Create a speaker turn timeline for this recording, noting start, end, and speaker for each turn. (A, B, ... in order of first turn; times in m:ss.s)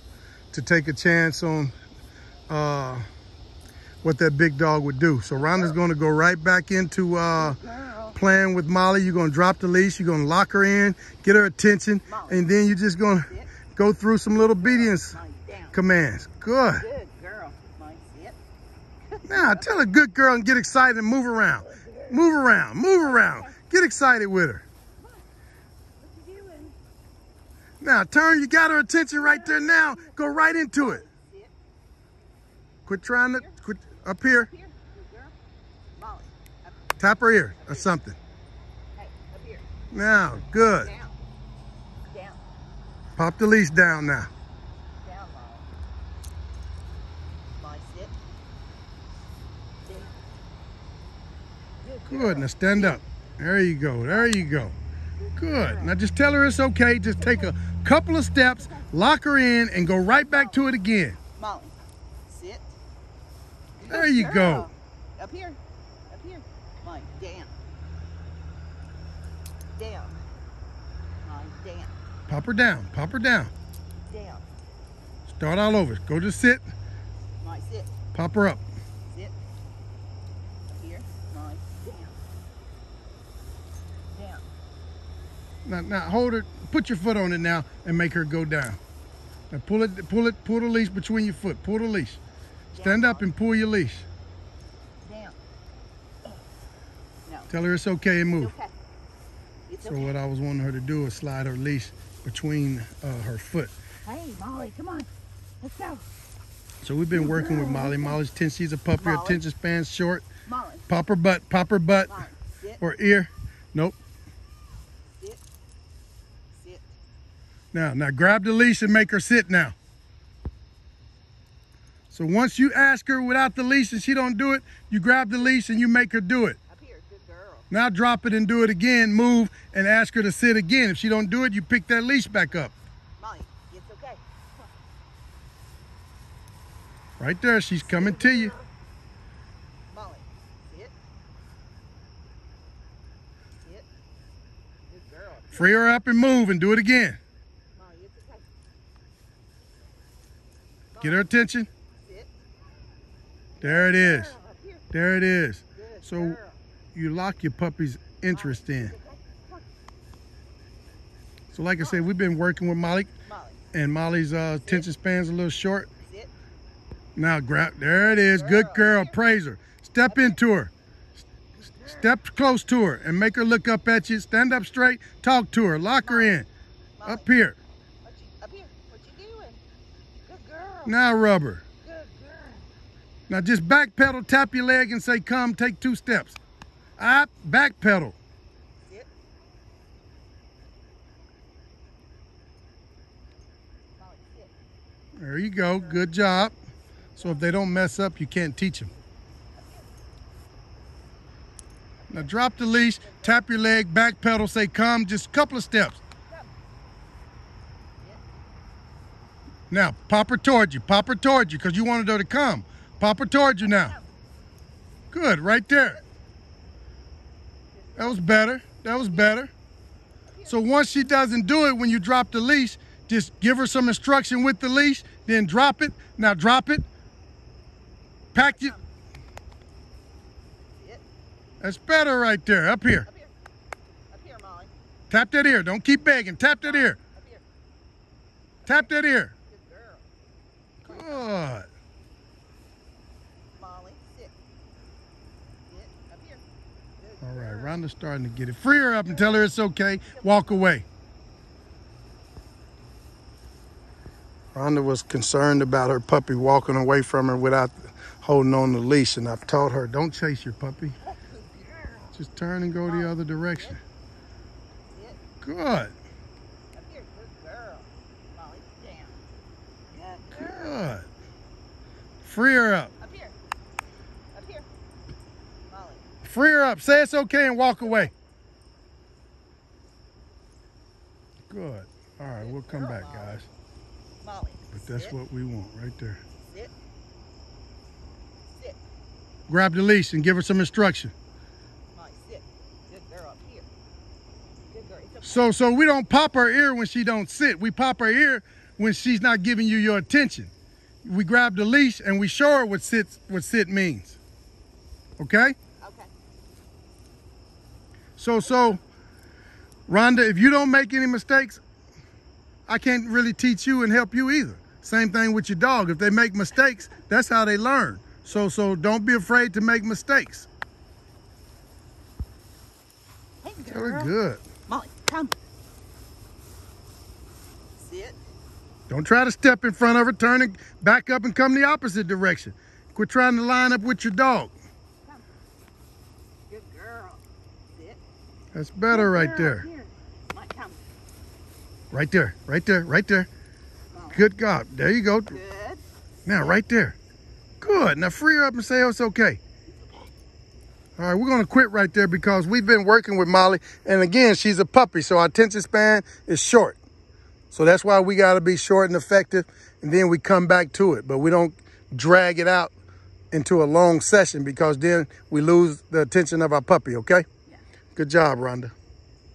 0:00.5-0:01.7 A
0:02.5-0:03.0 A
0:04.0-0:07.6 A
0:05.3-0:05.8 B
0:07.4-0:08.2 B
0:08.1-0:15.2 A
0:12.0-0:12.5 B
0:14.4-0:15.8 B
0:15.7-0:16.9 A
0:16.8-0:18.4 B
0:19.1-0:19.7 B
0:19.2-0:24.6 A
0:21.6-0:22.2 B
0:23.0-0:23.6 B
0:25.0-0:25.2 B
0:26.0-0:26.8 B
0:27.8-0:31.0 A
0:29.2-0:31.5 B
0:32.8-0:34.5 A
0:33.0-0:33.6 B
0:34.4-0:35.3 B
0:36.0-0:36.8 B
0:37.0-0:38.2 A
0:37.6-0:37.9 B
0:39.0-0:39.7 B
0:39.9-0:40.9 A
0:40.5-0:41.2 B
0:42.1-0:42.4 B
0:43.2-0:44.3 A
0:45.0-0:45.7 B
0:47.6-0:48.2 B
0:49.8-0:50.2 B
0:51.8-0:53.0 B
0:52.0-0:54.8 A
0:54.1-0:54.4 B
0:55.2-0:56.0 B
0:55.4-1:01.2 A
0:57.2-0:57.5 B
0:58.6-0:58.9 B
1:00.3-1:01.8 B
1:02.3-1:02.8 B
1:03.8-1:05.6 B
1:03.9-1:04.7 A
1:06.1-1:07.5 B
1:09.7-1:10.2 B
1:11.2-1:11.9 B
1:12.3-1:13.5 A
1:14.1-1:14.4 B
1:15.3-1:16.6 A
1:17.4-1:17.9 B
1:18.1-1:18.6 A
1:19.1-1:19.3 B
1:20.7-1:22.1 B
1:24.1-1:24.4 B
1:25.6-1:28.8 A
1:29.5-1:32.2 A
1:32.7-1:33.3 B
1:32.8-1:34.1 A
1:35.0-1:35.4 B
1:37.2-1:37.5 B
1:37.5-1:38.5 A
1:38.3-1:38.7 B
1:39.7-1:40.1 B
1:39.8-1:43.7 A
1:44.0-1:45.1 B
1:45.6-1:46.0 B
1:46.8-1:50.3 A
1:47.1-1:48.2 B
1:49.0-1:49.4 B
1:50.4-1:50.9 B
1:50.9-1:52.2 A
1:52.0-1:52.8 B
1:52.8-1:54.0 A
1:56.5-1:57.0 B
1:57.7-1:59.8 A
2:02.1-2:06.6 A
2:06.7-2:07.7 B
2:07.7-2:12.7 A
2:13.2-2:14.2 B
2:17.2-2:18.6 A
2:17.9-2:18.6 B
2:19.9-2:20.9 B
2:24.9-2:25.7 B
2:25.5-2:27.2 A
2:27.7-2:28.5 B
2:30.9-2:31.3 B
2:31.0-2:31.7 A
2:32.0-2:32.3 B
2:33.6-2:34.9 B
2:33.6-2:34.4 A
2:34.9-2:36.4 A
2:35.8-2:36.6 B
2:36.9-2:38.9 A
2:38.3-2:39.6 B
2:41.5-2:43.1 A
2:41.8-2:42.1 B
2:43.2-2:43.6 B
2:43.7-2:45.9 A
2:46.0-2:46.3 B
2:47.2-2:50.7 A
2:48.0-2:49.2 B
2:50.1-2:50.4 B
2:51.8-2:56.5 A
2:56.0-2:56.3 B
2:57.0-2:57.3 B
2:57.0-2:57.6 A
2:58.0-2:59.6 B
3:00.2-3:00.9 B
3:00.8-3:01.6 A
3:01.8-3:02.7 B
3:03.3-3:06.4 A
3:07.0-3:08.2 A
3:14.0-3:14.5 B
3:15.2-3:16.5 A
3:15.6-3:16.5 B
3:17.1-3:17.5 B
3:17.2-3:18.9 A
3:19.6-3:19.9 B
3:22.1-3:22.4 B
3:22.1-3:26.0 A
3:23.0-3:23.4 B
3:26.2-3:26.5 B
3:29.7-3:33.9 A
3:33.6-3:34.1 B
3:35.1-3:36.0 A
3:37.7-3:38.3 B
3:38.0-3:39.5 A
3:38.9-3:39.3 B
3:40.3-3:40.7 B
3:40.5-3:46.9 A
3:48.3-3:48.9 B
3:48.3-3:48.8 A
3:50.7-3:51.0 B
3:51.6-3:53.1 A
3:53.1-3:53.3 B
3:54.1-3:54.7 B
3:55.1-3:57.0 A
3:56.6-3:57.4 B
3:58.6-4:00.0 B
3:58.7-3:59.3 A
4:00.8-4:01.3 B
4:00.8-4:01.7 A
4:03.5-4:04.3 B
4:05.7-4:06.4 B
4:07.0-4:07.8 B
4:07.2-4:10.9 A
4:09.0-4:09.5 B
4:10.1-4:10.7 B
4:14.5-4:21.0 A
4:21.0-4:22.2 B
4:22.1-4:23.8 A
4:22.8-4:23.8 B
4:24.9-4:25.2 B
4:25.4-4:25.9 A
4:26.7-4:29.2 B
4:29.9-4:30.8 B
4:30.3-4:31.1 A
4:32.2-4:32.9 A
4:33.0-4:33.3 B
4:34.3-4:34.6 B
4:35.7-4:36.0 B
4:36.2-4:38.1 A
4:37.8-4:38.1 B
4:41.5-4:43.4 A
4:42.3-4:43.4 B
4:44.2-4:45.2 B
4:44.7-4:46.2 A
4:46.4-4:46.7 B
4:48.5-4:48.8 B
4:49.5-4:51.1 A
4:51.9-4:53.7 B
4:54.7-4:55.6 B
4:55.2-5:00.5 A
5:01.0-5:04.2 A
5:05.2-5:05.6 A
5:05.8-5:06.1 B
5:08.2-5:08.8 A
5:09.9-5:11.6 A
5:12.7-5:20.5 A
5:23.4-5:24.1 B
5:23.7-5:24.4 A
5:24.7-5:25.4 B
5:27.8-5:28.2 B
5:28.9-5:34.5 A
5:36.5-5:38.0 B
5:38.6-5:39.7 A
5:38.9-5:40.8 B
5:41.9-5:43.3 A
5:43.9-5:44.2 B
5:44.1-5:45.4 A
5:45.3-5:45.8 B
5:46.2-5:47.0 A
5:47.6-5:49.4 A
5:49.7-5:50.1 B
5:51.0-5:56.8 A
5:57.5-6:02.7 A
6:03.3-6:07.3 A
6:07.9-6:08.7 A